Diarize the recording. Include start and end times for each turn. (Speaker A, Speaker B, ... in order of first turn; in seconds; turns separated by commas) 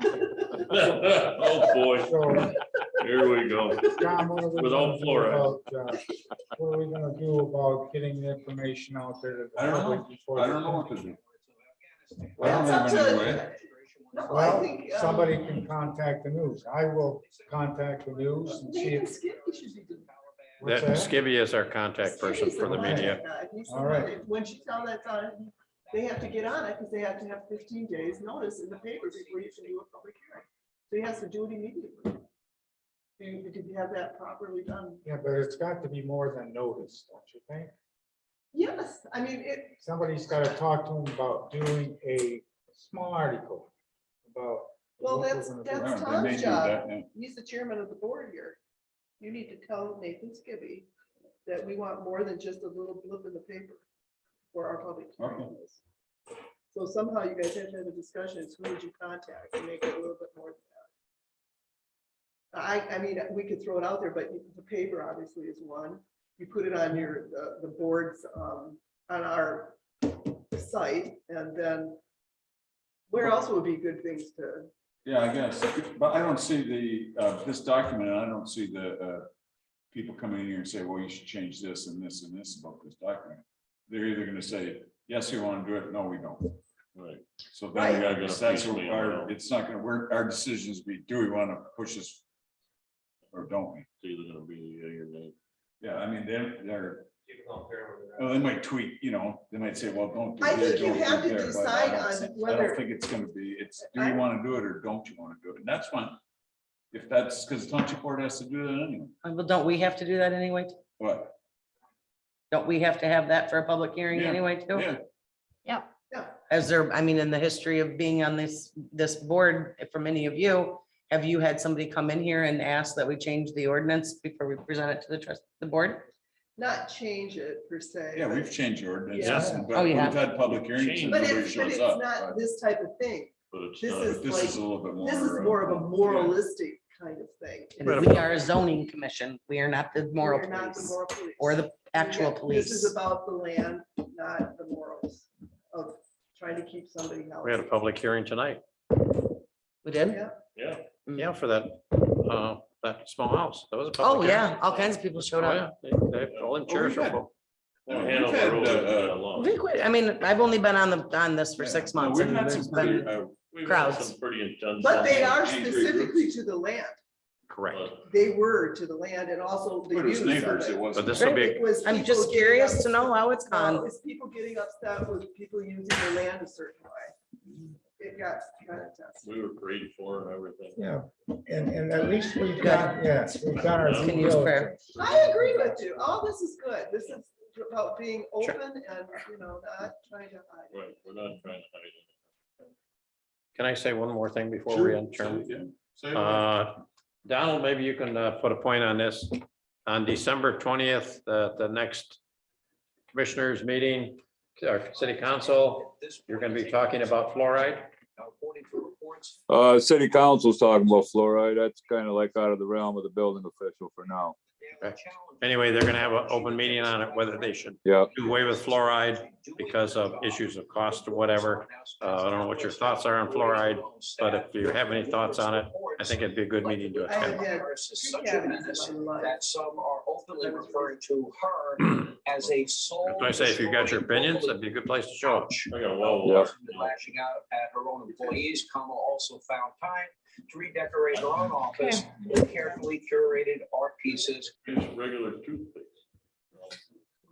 Speaker A: 0.6-2.2, Speaker B: 1.9-2.5, Speaker A: 3.0-4.0, Speaker B: 3.8-11.0, Speaker A: 4.5-5.5, Speaker C: 9.6-11.2, Speaker D: 11.1-16.1, Speaker C: 12.4-13.5, Speaker E: 12.4-15.4, Speaker B: 14.3-19.1, Speaker D: 17.2-21.3, Speaker E: 18.4-20.1, Speaker B: 20.6-21.2, Speaker F: 20.6-23.3, Speaker E: 22.0-32.2, Speaker B: 22.6-24.1, Speaker D: 23.7-25.2, Speaker D: 25.9-29.8, Speaker E: 33.2-35.0, Speaker B: 35.0-37.7, Speaker E: 38.5-39.8, Speaker B: 39.8-43.7, Speaker B: 44.3-45.8, Speaker E: 45.0-48.6, Speaker C: 45.7-47.1, Speaker E: 49.2-50.9, Speaker E: 51.5-53.9, Speaker E: 54.5-55.8, Speaker C: 55.2-55.5, Speaker E: 56.7-60.9, Speaker E: 62.5-72.0, Speaker E: 73.1-74.7, Speaker C: 75.0-79.3, Speaker C: 79.9-86.6, Speaker A: 87.0-87.2, Speaker C: 87.5-92.2, Speaker E: 87.7-88.1, Speaker A: 88.0-89.4, Speaker C: 93.3-93.9, Speaker A: 94.0-95.3, Speaker C: 95.8-97.1, Speaker F: 97.3-98.4, Speaker C: 98.2-106.2, Speaker E: 100.4-102.9, Speaker E: 103.8-104.3, Speaker C: 106.9-109.1, Speaker G: 109.2-110.8, Speaker C: 111.0-111.3, Speaker G: 112.5-114.9, Speaker C: 114.1-115.0, Speaker E: 116.1-116.4, Speaker G: 116.5-126.1, Speaker E: 126.6-129.6, Speaker C: 128.1-132.4, Speaker A: 129.2-129.6, Speaker B: 129.3-129.7, Speaker G: 129.7-130.3, Speaker A: 130.3-131.6, Speaker E: 131.1-138.5, Speaker A: 133.5-134.6, Speaker C: 134.2-136.4, Speaker G: 137.8-142.9, Speaker F: 137.8-138.4, Speaker E: 140.2-147.9, Speaker F: 147.4-148.6, Speaker G: 149.8-150.2, Speaker E: 150.1-150.3, Speaker A: 150.6-150.8, Speaker G: 151.1-151.3, Speaker F: 151.2-157.3, Speaker G: 154.0-155.7, Speaker A: 156.3-157.0, Speaker C: 156.7-157.2, Speaker A: 157.9-159.6, Speaker C: 157.9-159.3, Speaker G: 159.3-164.1, Speaker C: 161.6-163.4, Speaker A: 163.5-165.6, Speaker E: 164.8-167.0, Speaker C: 165.4-166.3, Speaker F: 167.5-167.9, Speaker A: 167.7-168.0, Speaker E: 168.0-177.1, Speaker C: 169.9-171.4, Speaker F: 170.9-171.6, Speaker G: 171.1-173.9, Speaker E: 178.0-179.3, Speaker A: 179.2-180.8, Speaker B: 180.8-184.9, Speaker G: 182.5-184.8, Speaker A: 183.7-184.2, Speaker A: 185.0-185.8, Speaker E: 185.0-190.8, Speaker A: 190.7-192.2, Speaker F: 193.6-195.5, Speaker C: 194.7-195.7, Speaker A: 195.9-196.5, Speaker F: 196.1-199.3, Speaker F: 199.9-202.2, Speaker F: 203.1-207.9, Speaker D: 204.9-209.4, Speaker H: 209.5-214.3, Speaker D: 214.3-234.6, Speaker F: 214.8-227.5, Speaker E: 227.0-229.4, Speaker E: 230.3-231.0, Speaker F: 231.8-232.1, Speaker A: 232.4-233.4, Speaker F: 233.1-235.7, Speaker D: 235.2-244.5, Speaker A: 235.7-237.1, Speaker A: 241.1-241.5, Speaker G: 241.7-242.1, Speaker A: 244.6-246.0